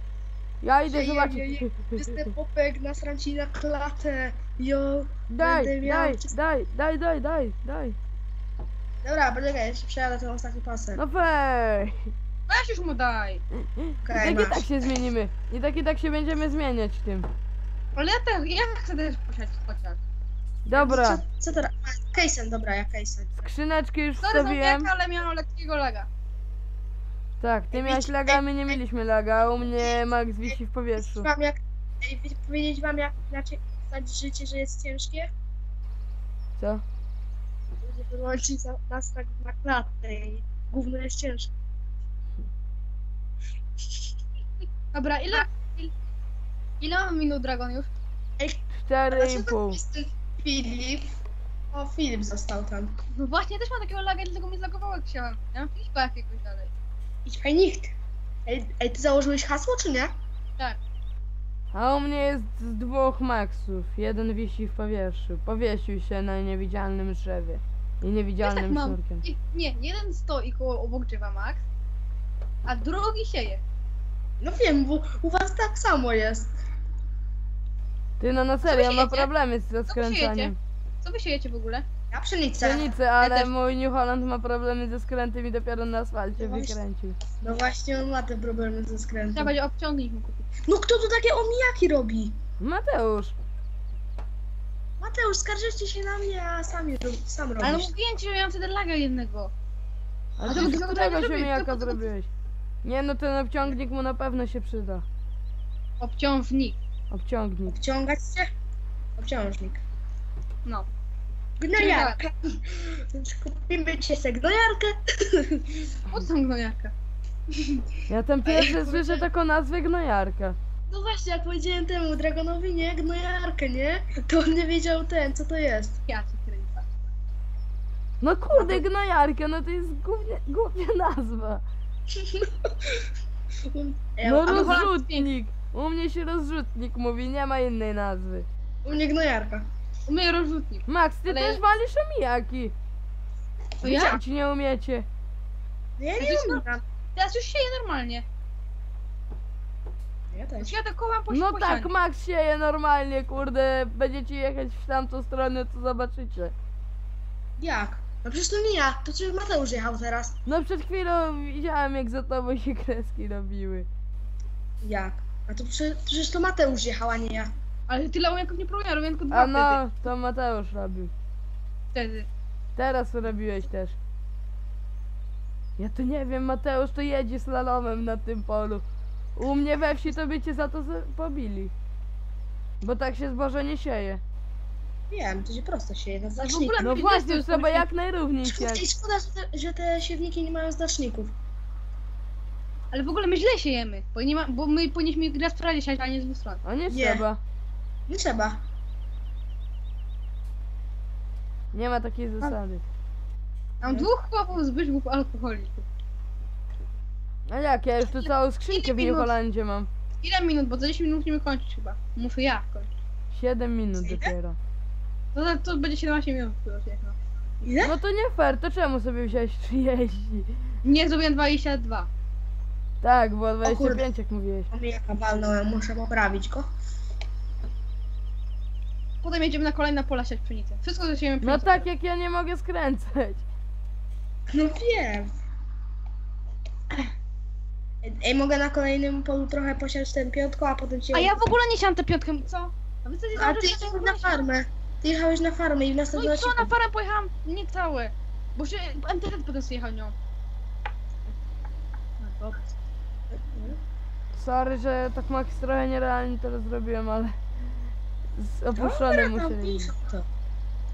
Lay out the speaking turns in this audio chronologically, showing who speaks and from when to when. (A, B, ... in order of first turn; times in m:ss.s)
0:00.6-0:02.3 A
0:00.9-0:06.3 B
0:05.3-0:08.0 A
0:09.0-0:11.0 B
0:11.0-0:12.1 A
0:12.5-0:13.4 C
0:13.8-0:17.3 A
0:14.0-0:14.7 B
0:18.0-0:20.0 C
0:20.6-0:21.2 A
0:20.8-0:23.5 B
0:23.4-0:24.9 A
0:24.2-0:26.1 C
0:27.4-0:31.3 A
0:27.7-0:28.8 B
0:31.0-0:35.3 B
0:36.6-0:36.8 A
0:37.8-0:41.5 B
0:44.9-0:45.9 C
0:46.8-0:47.9 C
0:48.4-0:51.2 B
0:48.8-0:49.8 A
0:51.7-0:52.9 B
0:53.2-0:56.7 C
0:57.3-0:57.9 B
0:58.5-1:00.1 B
1:01.7-1:09.2 A
1:08.4-1:11.6 C
1:12.7-1:13.6 C
1:14.4-1:16.5 B
1:18.2-1:20.6 A
1:18.6-1:19.3 C
1:19.9-1:21.9 C
1:22.1-1:23.0 B
1:22.6-1:27.2 A
1:23.2-1:23.5 C
1:26.4-1:26.8 B
1:27.4-1:29.6 B
1:29.3-1:30.4 C
1:30.7-1:32.4 B
1:32.6-1:33.4 A
1:35.0-1:37.9 B
1:37.6-1:39.5 C
1:40.4-1:40.9 B
1:40.4-1:42.3 A
1:40.5-1:42.1 C
1:42.8-1:45.0 A
1:46.0-1:46.8 C
1:47.1-1:47.8 A
1:47.7-1:48.5 B
1:49.2-1:49.8 B
1:51.6-1:56.0 B
1:51.7-1:52.2 C
1:56.1-1:56.9 C
1:58.1-2:00.6 A
1:58.4-1:59.3 B
2:00.9-2:06.0 B
2:06.1-2:06.9 C
2:08.2-2:11.6 A
2:08.6-2:08.8 B
2:12.1-2:13.0 B
2:13.7-2:14.8 B
2:14.2-2:18.5 A
2:14.5-2:15.3 C
2:18.8-2:19.7 B
2:20.1-2:21.6 C
2:20.9-2:22.8 A
2:23.8-2:24.2 B
2:23.8-2:25.1 A
2:23.8-2:24.2 C
2:26.0-2:26.8 B
2:26.2-2:26.6 C
2:27.2-2:28.3 C
2:30.3-2:30.8 B
2:30.6-2:31.9 C
2:31.3-2:36.5 A
2:37.6-2:40.4 B
2:40.5-2:43.9 A
2:44.8-2:47.5 B
2:47.9-2:49.8 C
2:49.3-2:51.1 A
2:51.9-2:52.3 C
2:52.8-2:54.0 A
2:55.8-2:58.8 A
2:59.4-3:01.7 A
3:02.8-3:04.2 A
3:05.1-3:06.8 B
3:06.4-3:07.9 C
3:06.8-3:08.8 A
3:08.4-3:11.3 B
3:12.9-3:16.6 C
3:16.6-3:17.4 A
3:16.9-3:17.2 B
3:18.1-3:18.6 B
3:21.7-3:22.8 A
3:23.8-3:25.9 C
3:23.8-3:24.1 B
3:27.5-3:29.9 A
3:28.1-3:29.3 C
3:30.2-3:32.9 C
3:33.3-3:34.6 A
3:34.0-3:34.3 B
3:35.3-3:37.2 C
3:37.6-3:38.0 B
3:37.8-3:40.5 A
3:40.8-3:42.1 C
3:43.0-3:44.7 A
3:43.6-3:44.1 B
3:44.7-3:46.6 B
3:49.2-3:51.9 C
3:51.4-3:53.5 A
3:54.5-3:55.3 B
3:58.0-4:01.4 B
4:01.1-4:04.4 C
4:03.4-4:06.7 B
4:06.1-4:10.2 C
4:12.2-4:12.7 C
4:13.3-4:13.8 B
4:14.4-4:17.4 A
4:18.4-4:19.9 A
4:18.8-4:20.3 B